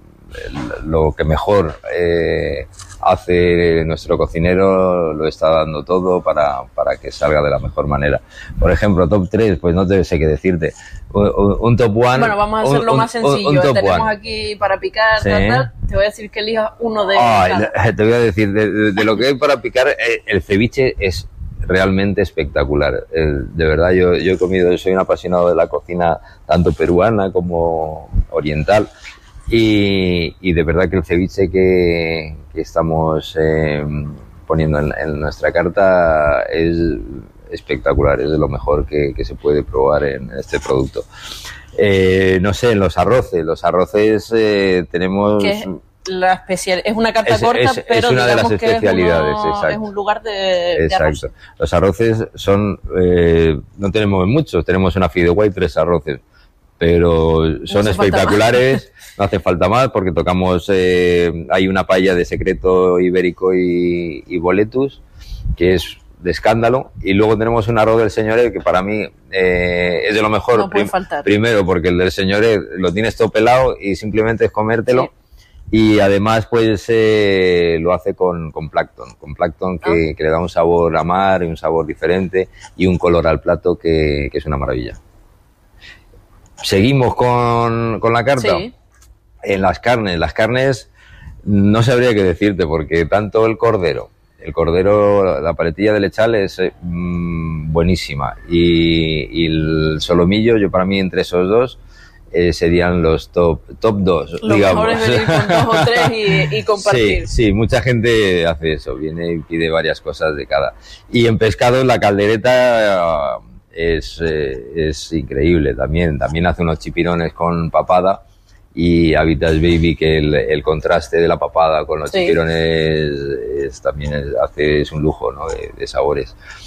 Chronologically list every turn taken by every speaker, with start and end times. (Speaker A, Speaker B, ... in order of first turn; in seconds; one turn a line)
Speaker A: 0.3-14.1
Speaker B: 12.1-17.7
Speaker A: 15.2-15.7
Speaker A: 17.1-28.9
Speaker A: 29.5-41.0
Speaker A: 41.7-45.7
Speaker B: 45.4-51.3
Speaker A: 47.2-49.8
Speaker A: 50.8-56.2
Speaker A: 56.8-65.0
Speaker B: 57.7-58.7
Speaker A: 65.5-75.1
Speaker B: 70.5-71.3
Speaker A: 75.7-85.0
Speaker A: 86.6-88.7
Speaker B: 88.4-88.7
Speaker A: 89.4-90.9
Speaker A: 91.4-101.8
Speaker A: 102.3-118.2
Speaker B: 104.4-107.3
Speaker A: 118.7-126.3
Speaker B: 122.1-122.4